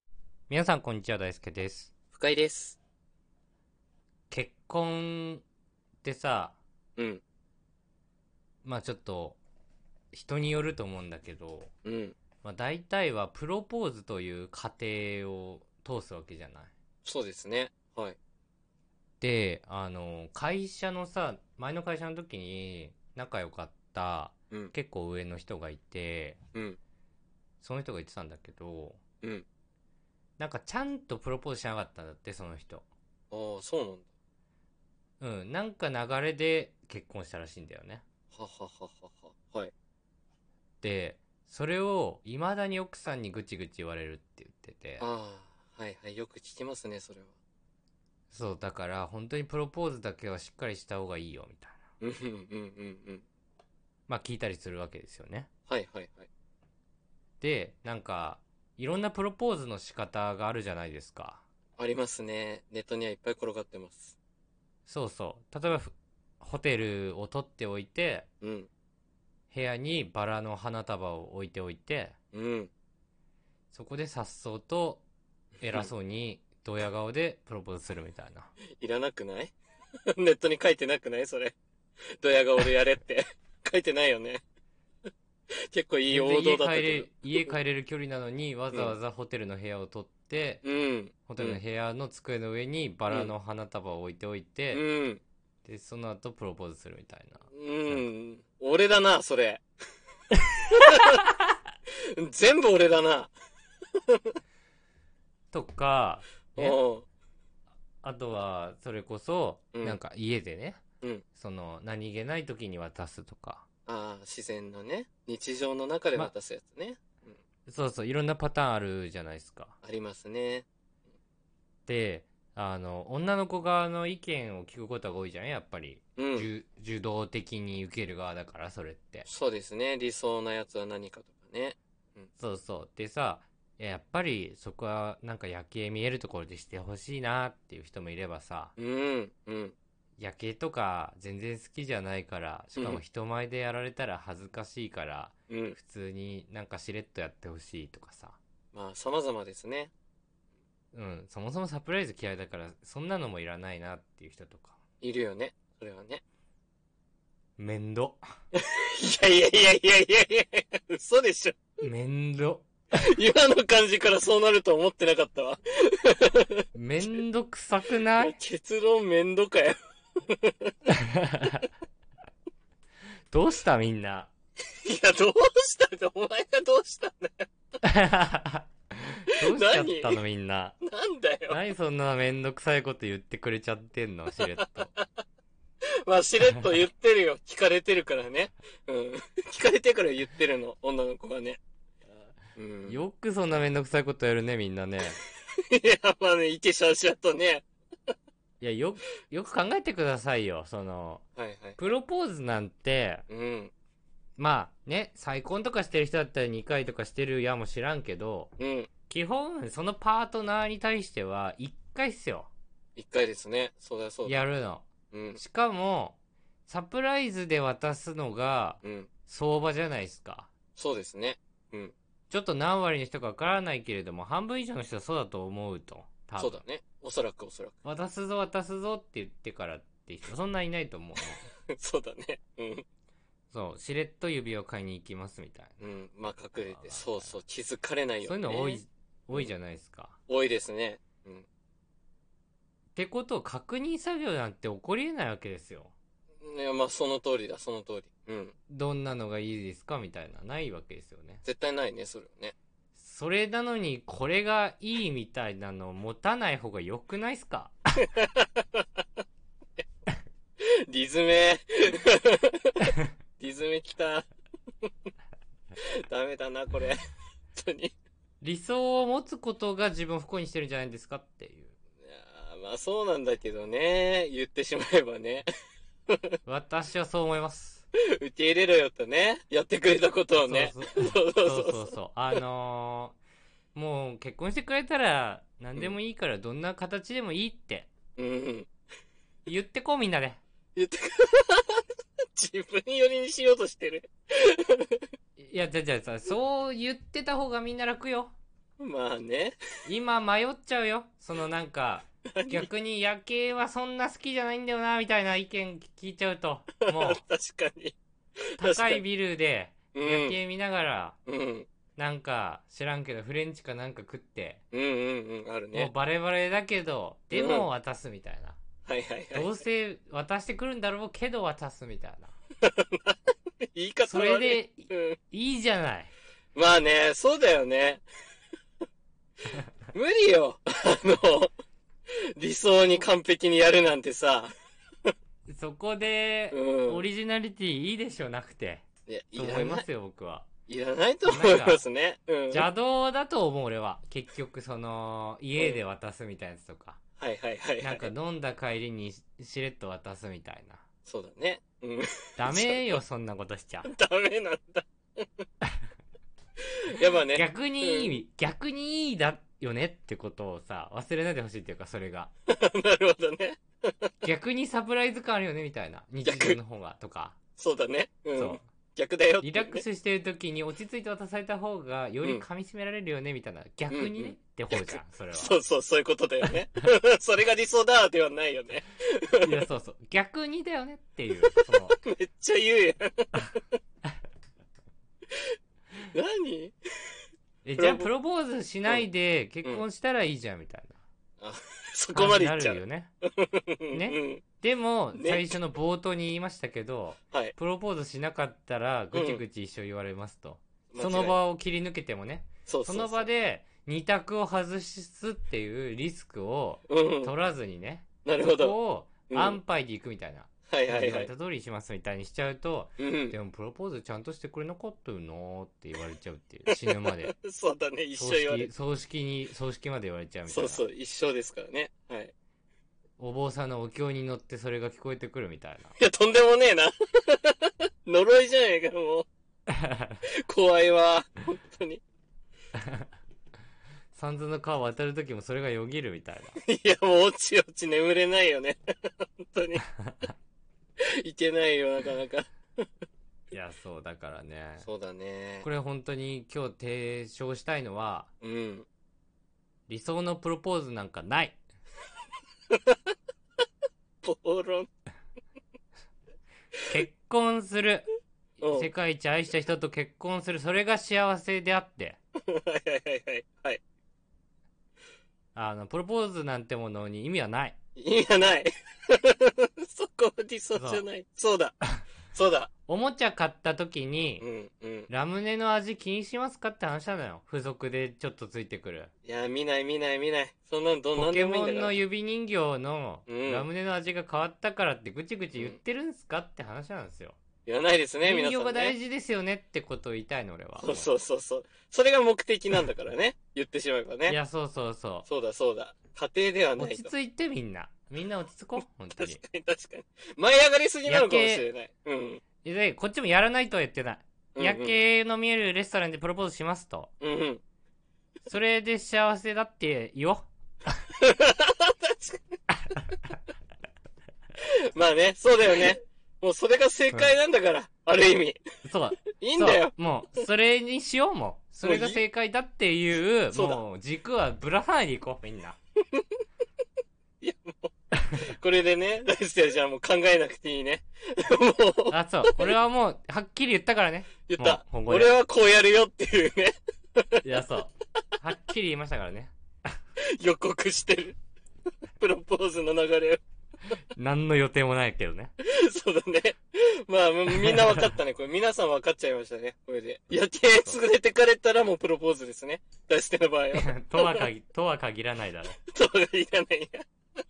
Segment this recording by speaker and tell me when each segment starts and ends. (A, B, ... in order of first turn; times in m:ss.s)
0:00.5-0:01.9 A
0:02.1-0:02.8 B
0:04.3-0:05.4 A
0:06.0-0:06.6 A
0:07.0-0:07.2 B
0:08.6-0:09.4 A
0:10.1-0:11.7 A
0:11.8-0:12.2 B
0:12.4-0:16.7 A
0:17.0-0:18.2 B
0:19.2-0:26.4 A
0:26.5-0:26.8 B
0:27.6-0:29.0 A
0:30.4-0:32.9 A
0:33.3-0:34.1 B
0:35.2-0:38.0 A
0:38.3-0:39.7 B
0:40.8-0:45.1 A
0:45.0-0:47.3 B
0:48.3-0:51.8 A
0:52.0-0:53.2 B
0:54.1-0:55.5 A
0:55.7-0:56.3 B
0:57.4-1:01.4 A
1:01.8-1:04.2 B
1:04.9-1:08.3 A
1:08.4-1:08.7 B
1:09.5-1:12.2 A
1:12.3-1:12.7 B
1:13.7-1:15.0 A
1:15.6-1:18.5 A
1:18.8-1:19.6 B
1:20.1-1:21.6 B
1:22.2-1:24.4 B
1:25.7-1:27.5 B
1:26.1-1:30.6 A
1:30.6-1:31.6 B
1:31.3-1:34.8 A
1:34.7-1:35.2 B
1:35.6-1:38.1 A
1:37.5-1:39.6 B
1:40.8-1:41.2 B
1:41.9-1:43.3 B
1:44.1-1:44.4 B
1:45.5-1:46.8 A
1:46.6-1:47.1 B
1:48.0-1:50.8 A
1:51.4-1:53.7 A
1:53.9-1:57.4 B
1:57.7-1:59.8 A
1:59.8-2:00.6 B
2:01.9-2:09.3 A
2:06.2-2:06.5 B
2:09.3-2:12.3 B
2:12.4-2:18.7 A
2:18.8-2:19.8 B
2:20.2-2:28.4 A
2:22.8-2:23.0 B
2:25.5-2:25.8 B
2:28.7-2:29.9 B
2:30.9-2:34.8 A
2:35.0-2:36.2 B
2:37.6-2:38.2 A
2:38.5-2:41.6 B
2:41.8-2:42.7 A
2:43.0-2:46.6 B
2:46.8-2:48.4 A
2:48.2-2:50.8 B
2:50.9-2:51.6 A
2:53.3-2:54.3 A
2:54.8-2:57.5 B
2:57.8-3:00.8 A
2:59.4-3:00.2 B
3:00.8-3:01.6 B
3:01.5-3:04.9 A
3:06.0-3:11.6 B
3:12.6-3:13.0 B
3:12.9-3:15.2 A
3:15.6-3:17.6 B
3:18.6-3:21.2 A
3:21.4-3:21.8 B
3:21.8-3:23.2 A
3:23.3-3:23.7 B
3:24.4-3:28.5 A
3:28.6-3:28.9 B
3:29.1-3:32.5 A
3:33.0-3:34.5 B
3:34.2-3:40.5 A
3:35.1-3:35.4 B
3:38.8-3:39.1 B
3:40.8-3:41.9 B
3:42.3-3:46.6 A
3:46.4-3:47.8 B
3:47.8-3:51.4 A
3:51.7-3:52.8 B
3:53.5-3:55.8 A
3:55.8-3:58.8 B
3:56.5-3:57.4 A
3:58.2-4:00.2 A
4:00.3-4:01.4 B
4:03.0-4:05.9 A
4:06.4-4:08.6 B
4:08.7-4:11.4 A
4:11.4-4:12.6 B
4:13.0-4:18.0 A
4:18.0-4:19.0 B
4:20.6-4:22.8 B
4:23.4-4:24.3 B
4:26.1-4:27.0 B
4:27.5-4:27.9 B
4:28.4-4:31.7 A
4:32.0-4:35.5 B
4:36.5-4:37.8 A
4:38.0-4:42.4 B
4:40.3-4:43.2 A
4:43.8-4:47.9 A
4:48.2-4:48.7 B
4:49.5-4:50.4 A
4:50.8-4:51.8 B
4:52.4-4:55.0 B
4:55.4-4:58.3 A
4:58.8-4:59.6 B
4:59.9-5:07.2 A
5:02.4-5:02.7 B
5:06.9-5:08.0 B
5:08.6-5:09.0 B
5:08.6-5:11.2 A
5:09.9-5:10.4 B
5:11.3-5:11.7 B
5:12.0-5:14.6 A
5:14.7-5:15.9 B
5:15.7-5:18.6 A
5:17.3-5:17.7 B
5:18.9-5:19.5 B
5:19.3-5:22.3 A
5:22.6-5:23.2 B
5:23.7-5:25.2 B
5:24.1-5:26.1 A
5:26.6-5:28.0 B
5:29.9-5:31.5 B
5:32.4-5:34.5 B
5:35.5-5:38.8 A
5:36.5-5:37.0 B
5:39.1-5:39.8 B
5:39.4-5:40.5 A
5:40.7-5:42.7 B
5:41.3-5:41.8 A
5:42.5-5:47.0 A
5:47.2-5:48.1 B
5:47.8-5:50.8 A
5:51.1-5:53.0 B
5:52.4-5:53.9 A
5:53.8-5:55.4 B
5:56.8-5:58.2 B
5:57.3-6:02.3 A
6:02.5-6:04.1 B
6:04.2-6:07.4 A
6:06.2-6:06.6 B
6:07.6-6:09.8 B
6:08.4-6:08.6 A
6:09.4-6:15.6 A
6:13.9-6:19.7 B
6:19.4-6:22.0 A
6:21.7-6:23.8 B
6:26.1-6:27.2 B
6:27.6-6:31.0 A
6:27.8-6:28.1 B
6:31.4-6:34.4 B
6:32.1-6:33.1 A
6:33.9-6:57.3 A
6:35.2-6:35.5 B
6:39.1-6:39.4 B
6:40.9-6:41.4 B
6:42.7-6:43.3 B
6:46.9-6:47.3 B
6:48.2-6:48.8 B
6:49.3-6:49.6 B
6:50.7-6:51.3 B
6:53.0-6:53.4 B
6:56.7-6:58.7 B
6:58.2-7:00.8 A
7:00.5-7:02.3 B
7:03.2-7:06.0 A
7:06.0-7:09.3 B
7:09.7-7:10.2 A
7:10.4-7:12.0 B
7:14.1-7:16.6 A
7:16.6-7:19.8 B
7:20.0-7:20.3 A
7:21.0-7:22.5 B
7:23.5-7:24.9 A
7:24.8-7:25.7 B
7:25.6-7:28.3 A
7:28.4-7:28.9 B
7:29.9-7:31.6 A
7:32.7-7:33.1 B
7:34.2-7:34.9 B
7:36.9-7:38.1 A
7:38.6-7:38.9 B
7:38.6-7:42.2 A
7:42.4-7:43.8 B
7:45.6-7:47.8 A
7:48.0-7:51.8 B
7:50.8-7:51.0 A
7:52.3-7:52.7 B
7:52.9-7:54.4 A
7:54.4-7:55.1 B
7:55.1-7:59.1 A
7:59.2-8:02.0 B
8:01.2-8:07.4 A
8:03.3-8:03.7 B
8:07.7-8:09.0 B
8:08.2-8:11.1 A
8:10.8-8:14.4 B
8:14.3-8:15.3 A
8:15.3-8:17.1 B
8:16.8-8:19.4 A
8:19.2-8:22.4 B
8:21.1-8:21.7 A
8:22.6-8:27.1 A
8:24.6-8:25.0 B
8:27.2-8:27.6 B
8:28.5-8:30.5 A
8:31.2-8:32.6 B
8:34.6-8:38.6 B
8:38.8-8:45.8 A
8:39.4-8:39.9 B
8:41.8-8:42.2 B
8:43.5-8:43.8 B
8:47.4-8:47.9 B
8:48.4-8:52.7 B
8:52.1-8:55.3 A
8:54.5-8:57.4 B
8:57.4-8:59.5 A
9:00.2-9:01.4 B
9:02.2-9:03.4 B
9:04.2-9:05.5 A
9:05.6-9:14.4 B
9:13.7-9:15.8 A
9:15.9-9:17.0 B